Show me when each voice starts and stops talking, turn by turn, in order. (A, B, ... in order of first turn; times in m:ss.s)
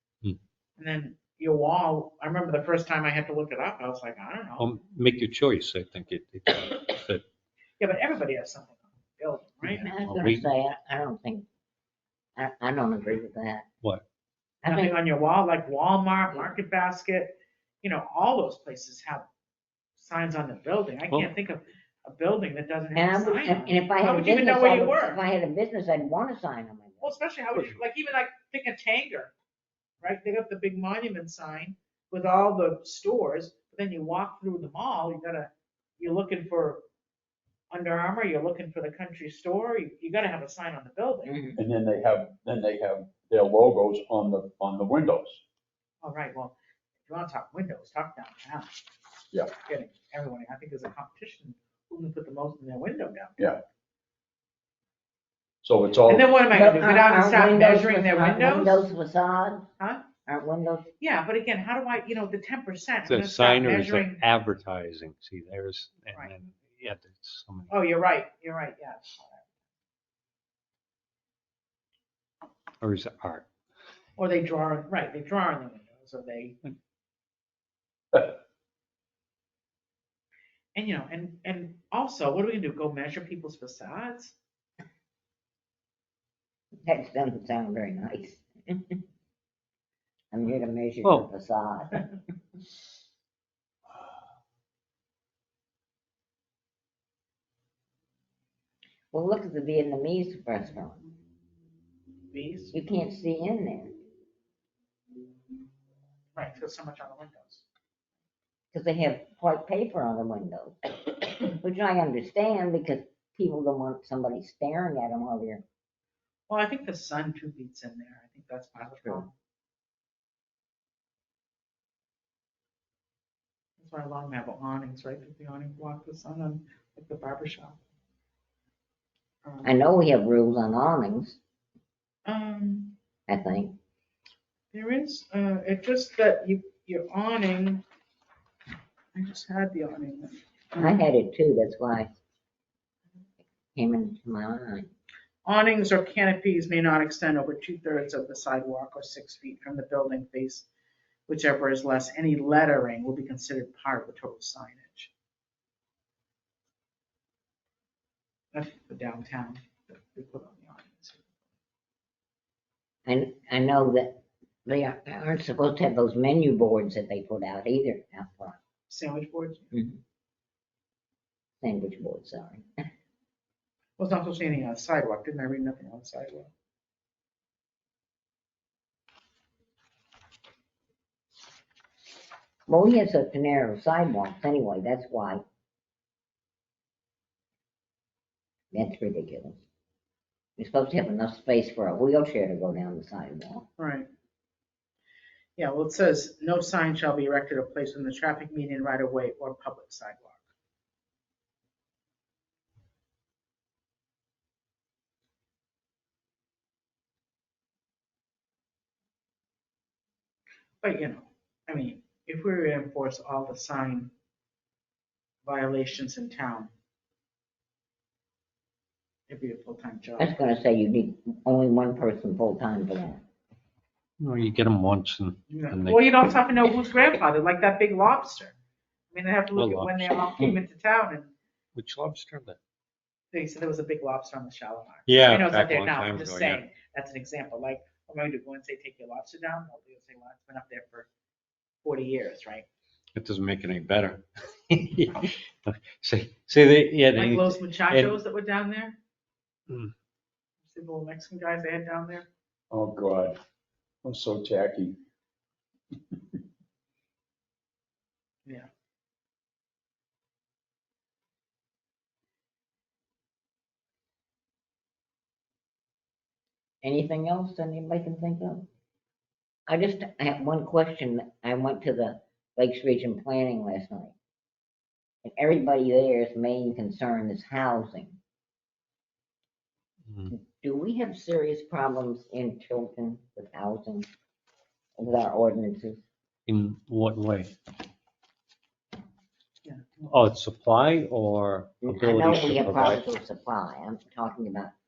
0:00.8-0:04.7 A
0:04.6-0:07.2 B
0:07.8-0:09.9 A
0:09.7-0:11.4 C
0:09.8-0:10.4 B
0:12.4-0:13.6 C
0:14.6-0:14.9 C
0:14.6-0:19.3 A
0:20.0-0:25.2 A
0:22.9-0:27.1 C
0:27.0-0:29.3 A
0:30.0-0:36.8 A
0:37.7-0:41.3 A
0:41.2-0:41.6 C
0:41.5-0:45.4 D
0:46.0-0:46.6 A
0:47.1-0:48.8 A
0:49.5-0:53.5 A
0:55.6-0:56.3 D
0:56.1-0:58.9 A
0:56.5-0:59.7 C
0:59.8-1:00.0 A
1:00.2-1:00.9 C
1:01.0-1:04.2 A
1:03.0-1:07.7 B
1:07.7-1:09.5 A
1:12.8-1:13.5 B
1:14.2-1:16.6 A
1:20.7-1:24.4 A
1:26.8-1:29.0 C
1:30.3-1:32.1 C
1:39.1-1:41.0 C
1:42.3-1:42.8 A
1:42.7-1:43.9 C
1:46.4-1:47.6 A
1:48.7-1:55.6 C
1:56.5-1:59.3 A
1:59.0-1:59.3 C
2:03.8-2:07.8 A
2:09.4-2:09.7 A
2:09.6-2:11.4 C
2:12.2-2:12.9 A
2:13.3-2:13.8 C
2:14.7-2:17.8 A
2:19.1-2:21.0 A
2:20.8-2:22.1 C
2:23.7-2:24.9 C
2:25.4-2:30.7 A
2:31.3-2:35.1 A
2:38.5-2:41.3 A
2:43.0-2:48.6 C
2:48.9-2:49.7 A
2:51.6-2:52.6 C
2:54.0-2:56.5 A
3:02.7-3:05.4 C
3:08.7-3:09.6 C
3:10.6-3:13.7 C
3:13.8-3:14.1 A
3:15.6-3:20.4 A
3:30.8-3:34.1 A
3:35.4-3:36.7 A
3:39.3-3:40.4 A
3:40.2-3:43.2 C
3:44.2-3:46.0 B
3:45.5-3:48.6 A
3:49.1-3:51.3 A
3:49.5-3:50.3 B
3:51.7-3:52.6 B
3:53.3-4:01.1 A
3:55.1-3:56.6 B
4:01.8-4:02.7 A
4:03.1-4:08.2 B
4:07.1-4:09.0 A
4:10.6-4:12.3 A
4:12.7-4:13.4 D
4:14.0-4:15.0 D
4:26.8-4:28.7 C
4:29.7-4:34.1 C
4:35.2-4:38.2 C
4:40.3-4:44.1 C
4:45.0-4:46.0 C
4:46.5-4:47.5 B
4:49.6-4:50.1 A
4:50.1-4:53.0 B
4:51.8-4:54.7 C